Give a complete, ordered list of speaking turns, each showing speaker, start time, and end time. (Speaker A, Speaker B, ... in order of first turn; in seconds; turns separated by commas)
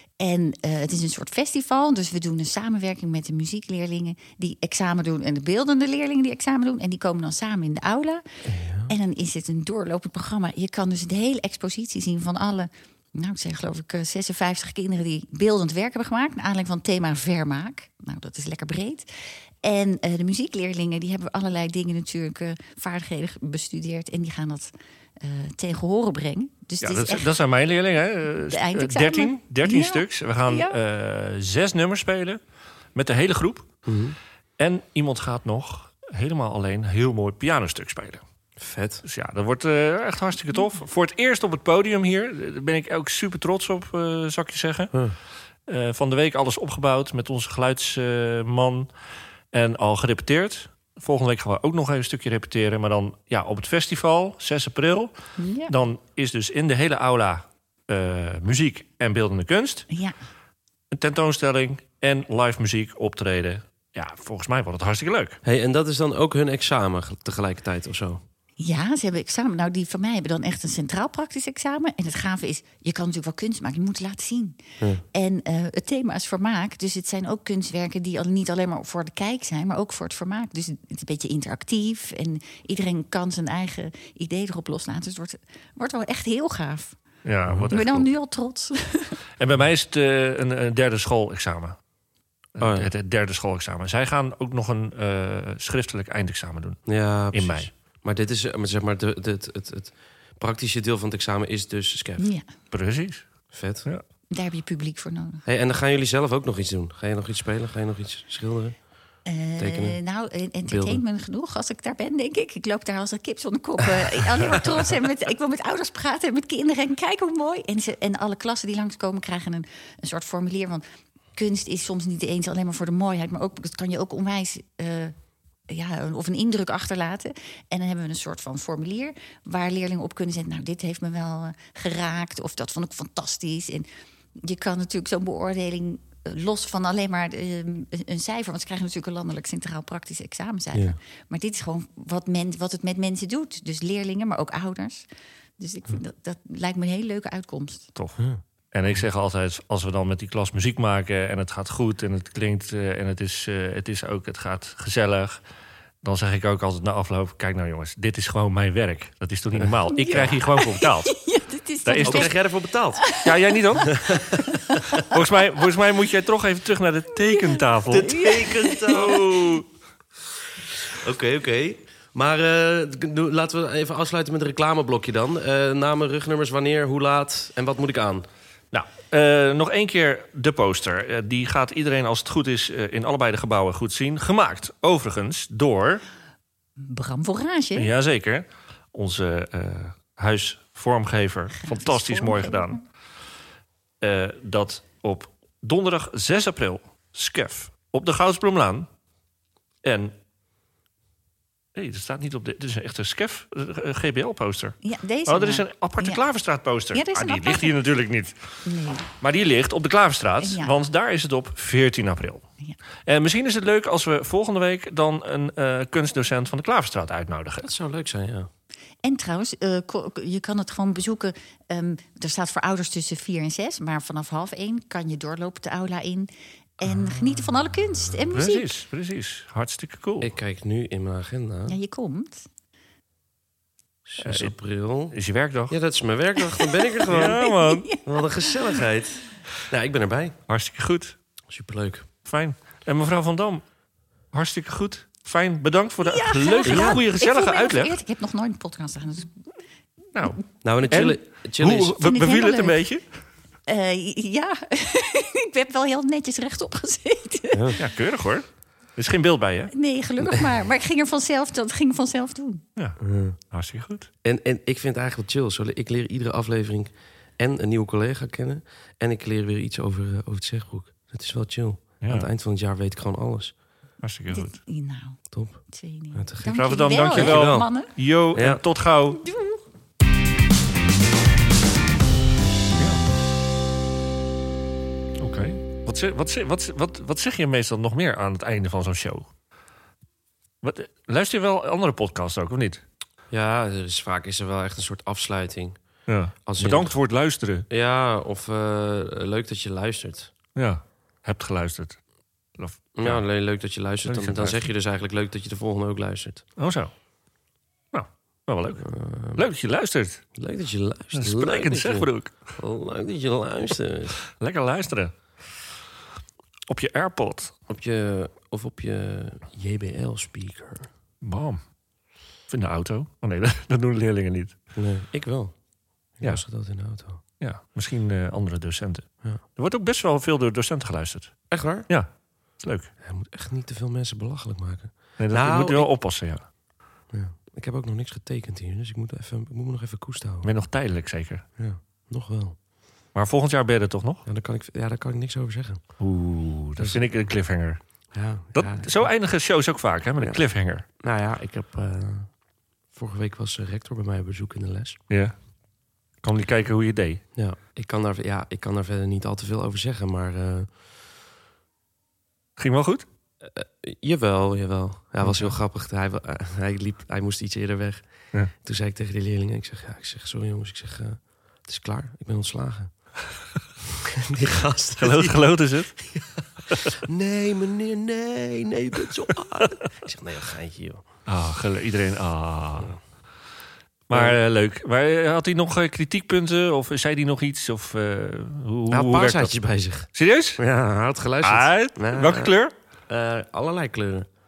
Speaker A: 0.2-8.2, Speaker B: 8.4-8.9, Speaker A: 8.9-27.3, Speaker C: 26.8-32.4, Speaker A: 28.5-30.8, Speaker C: 32.9-33.7, Speaker B: 33.8-34.1, Speaker C: 34.6-38.2, Speaker B: 38.6-39.0, Speaker C: 39.0-45.0, Speaker C: 45.7-48.9, Speaker C: 49.5-55.1, Speaker A: 55.4-55.7, Speaker C: 55.7-59.9, Speaker A: 59.9-60.1, Speaker C: 60.9-65.4, Speaker B: 65.4-68.2, Speaker A: 68.6-87.0, Speaker C: 87.2-88.1, Speaker B: 87.5-87.8, Speaker A: 87.7-89.2, Speaker C: 89.4-91.8, Speaker C: 92.5-97.7, Speaker B: 92.6-92.9, Speaker B: 96.9-102.3, Speaker A: 102.2-102.5, Speaker C: 102.7-104.0, Speaker B: 103.5-103.9, Speaker A: 104.3-105.4, Speaker B: 105.5-108.8, Speaker A: 109.2-120.8, Speaker B: 109.6-110.0, Speaker B: 110.7-111.0, Speaker A: 121.3-125.1, Speaker A: 125.7-145.1, Speaker A: 145.6-147.9, Speaker C: 148.7-155.4, Speaker C: 156.0-161.2, Speaker A: 159.9-162.3, Speaker C: 161.8-162.3, Speaker B: 162.0-163.0, Speaker A: 163.0-165.2, Speaker C: 163.2-164.2, Speaker B: 163.9-164.4, Speaker C: 164.9-168.3, Speaker A: 167.3-169.1, Speaker B: 167.9-169.7, Speaker B: 170.6-178.2, Speaker C: 178.7-186.0, Speaker A: 186.8-187.9, Speaker C: 187.8-192.8, Speaker A: 191.5-192.8, Speaker C: 194.0-198.9, Speaker C: 199.8-200.1, Speaker C: 201.7-208.3, Speaker A: 204.8-206.2, Speaker A: 206.9-207.8, Speaker A: 208.6-209.1, Speaker C: 209.1-212.4, Speaker A: 210.4-210.8, Speaker C: 213.1-217.7, Speaker B: 217.6-218.5, Speaker A: 219.0-228.7, Speaker C: 228.3-230.3, Speaker B: 230.2-231.8, Speaker A: 231.7-232.5, Speaker B: 234.1-235.2, Speaker C: 234.2-234.5, Speaker C: 235.1-235.8, Speaker B: 235.7-237.4, Speaker A: 236.6-238.8, Speaker C: 237.1-237.9, Speaker B: 238.0-240.4, Speaker C: 240.5-241.1, Speaker B: 241.5-242.1, Speaker C: 242.2-243.6, Speaker C: 244.3-247.9, Speaker A: 246.0-249.3, Speaker B: 246.7-247.0, Speaker C: 250.1-253.1, Speaker B: 250.6-252.0, Speaker A: 252.0-252.8, Speaker A: 253.7-257.8, Speaker B: 257.5-257.8, Speaker C: 257.8-259.7, Speaker A: 259.7-262.6, Speaker B: 263.0-263.4, Speaker C: 263.5-264.1, Speaker B: 264.2-273.5, Speaker C: 272.0-272.3, Speaker C: 274.0-274.6, Speaker A: 274.3-277.9, Speaker B: 275.3-275.6, Speaker B: 276.1-277.7, Speaker C: 276.5-279.2, Speaker B: 278.3-278.6, Speaker A: 279.2-279.6, Speaker C: 285.2-289.3, Speaker C: 290.6-292.8, Speaker B: 293.3-295.8, Speaker C: 296.1-297.7, Speaker B: 296.4-296.9, Speaker B: 297.7-300.3, Speaker C: 300.5-302.0, Speaker C: 302.6-303.2, Speaker B: 302.9-306.4, Speaker C: 304.0-304.7, Speaker C: 306.6-306.9, Speaker C: 307.9-310.2, Speaker B: 308.8-309.4, Speaker B: 310.3-314.2, Speaker C: 311.1-312.4, Speaker C: 314.4-315.1, Speaker C: 316.7-317.5, Speaker B: 317.7-320.9, Speaker C: 321.2-321.6, Speaker C: 322.5-324.6, Speaker B: 324.8-325.6, Speaker B: 326.1-327.2, Speaker C: 327.4-332.9, Speaker B: 331.5-331.9, Speaker B: 333.0-335.9, Speaker C: 335.2-336.4, Speaker B: 337.1-340.5, Speaker C: 340.4-341.4, Speaker B: 341.6-342.6, Speaker C: 343.1-344.2, Speaker B: 344.2-345.9, Speaker C: 346.0-347.8, Speaker B: 346.8-347.0, Speaker B: 348.1-349.0, Speaker C: 348.5-350.8, Speaker B: 351.0-352.3, Speaker B: 352.9-355.0, Speaker C: 355.1-355.3, Speaker C: 356.2-357.2, Speaker B: 357.3-360.7, Speaker C: 362.6-363.0, Speaker B: 363.4-368.0, Speaker C: 365.2-365.5, Speaker B: 368.6-372.9, Speaker B: 373.9-375.4, Speaker C: 375.0-376.0, Speaker B: 376.0-381.0, Speaker C: 376.7-376.9, Speaker C: 381.2-382.9, Speaker C: 384.1-389.5, Speaker B: 384.1-384.4, Speaker B: 388.9-392.5, Speaker C: 390.1-390.6, Speaker C: 391.4-392.7, Speaker B: 393.1-394.3